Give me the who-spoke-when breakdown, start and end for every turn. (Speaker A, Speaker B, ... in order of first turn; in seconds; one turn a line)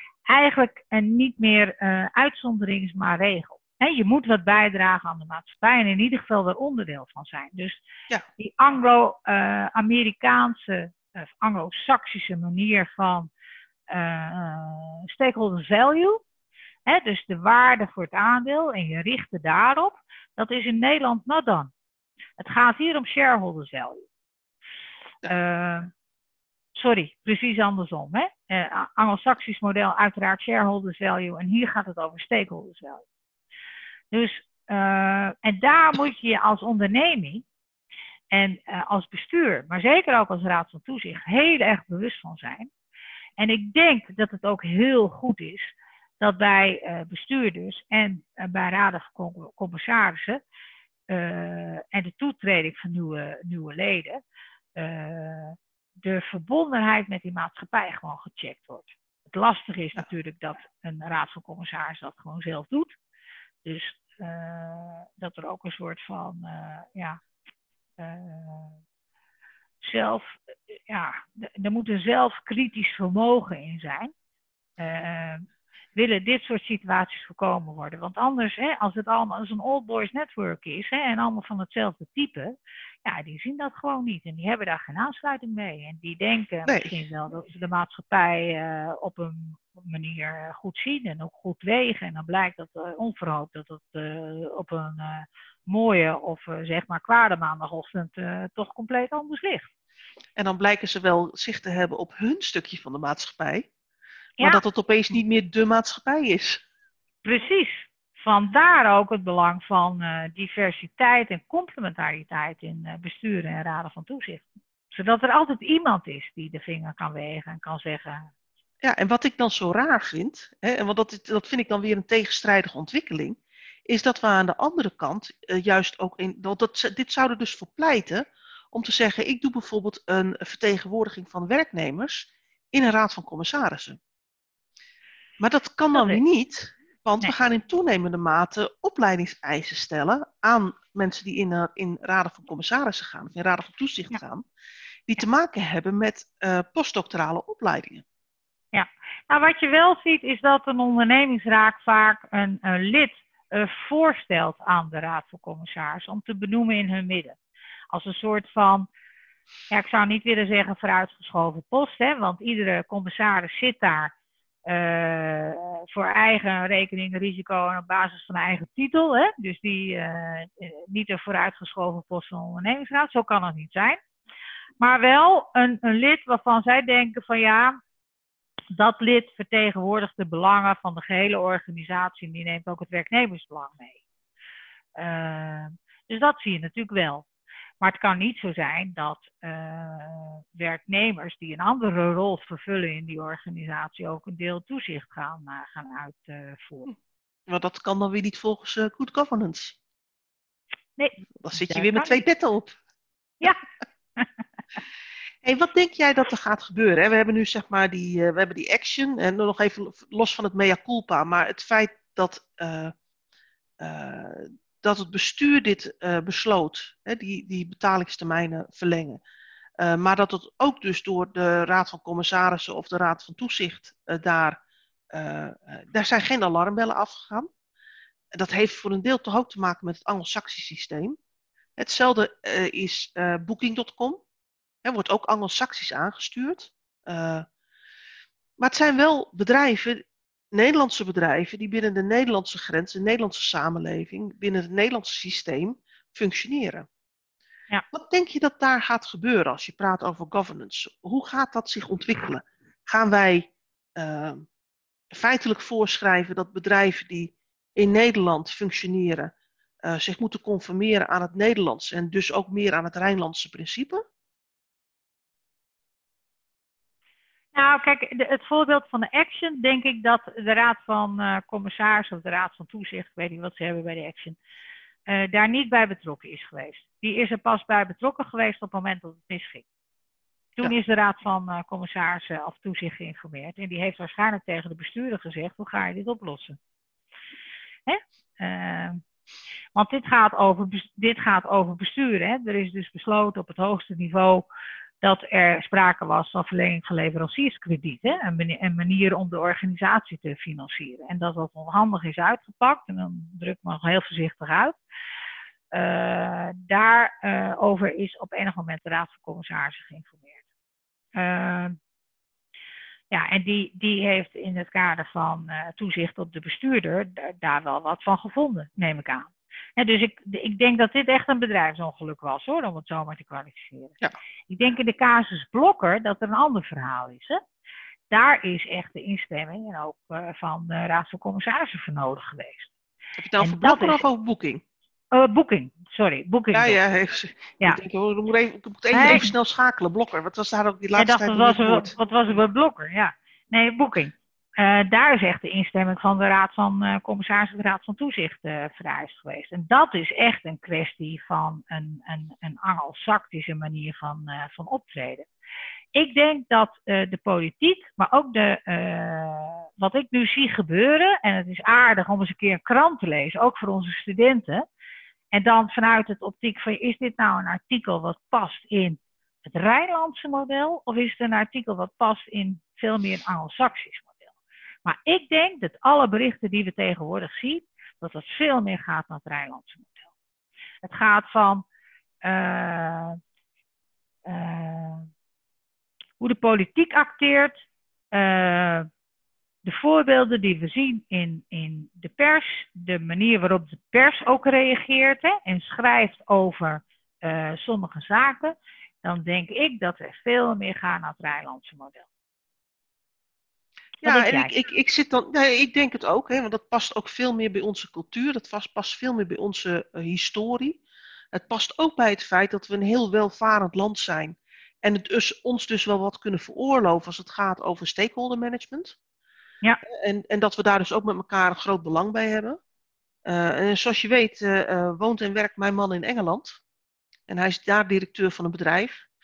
Speaker A: 0.3-7.8
Speaker A: 8.4-13.3
Speaker A: 13.9-16.2
Speaker A: 16.9-21.7
Speaker A: 22.4-24.1
Speaker A: 25.3-25.9
Speaker A: 26.8-33.0
Speaker A: 34.1-37.4
Speaker A: 38.3-42.7
Speaker A: 43.4-50.4
Speaker A: 51.1-54.2
Speaker A: 54.8-62.9
Speaker A: 63.6-67.2
Speaker A: 68.0-68.8
Speaker A: 69.8-74.1
Speaker A: 74.8-82.5
Speaker A: 83.0-99.7
Speaker B: 86.7-87.0
Speaker B: 100.4-103.7
Speaker B: 104.4-106.6
Speaker A: 107.2-118.3
Speaker B: 118.8-134.0
Speaker B: 135.4-144.4
Speaker A: 135.9-136.2
Speaker B: 145.1-148.0
Speaker A: 148.7-157.4
Speaker A: 157.9-158.9
Speaker A: 159.7-164.1
Speaker A: 164.7-174.0
Speaker A: 174.8-177.8
Speaker A: 178.7-184.0
Speaker A: 184.9-187.2
Speaker A: 187.8-196.9
Speaker B: 197.5-199.8
Speaker A: 201.0-202.2
Speaker B: 201.3-202.8
Speaker B: 205.4-212.9
Speaker B: 213.8-219.2
Speaker B: 219.8-224.6
Speaker B: 225.1-227.5
Speaker B: 228.3-231.2
Speaker B: 231.8-234.2
Speaker B: 234.8-237.4
Speaker B: 238.6-246.8
Speaker B: 247.9-254.4
Speaker B: 255.1-259.3
Speaker B: 259.9-264.0
Speaker A: 267.5-274.4
Speaker A: 275.1-279.6
Speaker A: 280.6-286.6
Speaker A: 287.9-289.0
Speaker A: 289.7-294.4
Speaker A: 295.0-304.8
Speaker A: 305.7-310.4
Speaker A: 311.1-311.8
Speaker A: 313.1-324.0
Speaker A: 324.5-327.4
Speaker A: 328.1-332.7
Speaker B: 333.2-334.6
Speaker A: 333.4-334.0
Speaker A: 335.1-336.8
Speaker B: 336.5-341.9
Speaker A: 338.9-339.3
Speaker A: 340.9-355.3
Speaker A: 355.9-364.6
Speaker A: 365.3-374.3
Speaker A: 374.8-380.1
Speaker A: 380.8-381.6
Speaker A: 382.2-383.2
Speaker A: 384.2-385.1
Speaker A: 386.2-387.6
Speaker A: 388.1-388.9
Speaker A: 389.6-402.1
Speaker A: 404.0-404.5
Speaker B: 404.0-410.8
Speaker B: 411.3-418.9
Speaker B: 419.8-422.6
Speaker B: 423.2-426.6
Speaker B: 427.3-429.1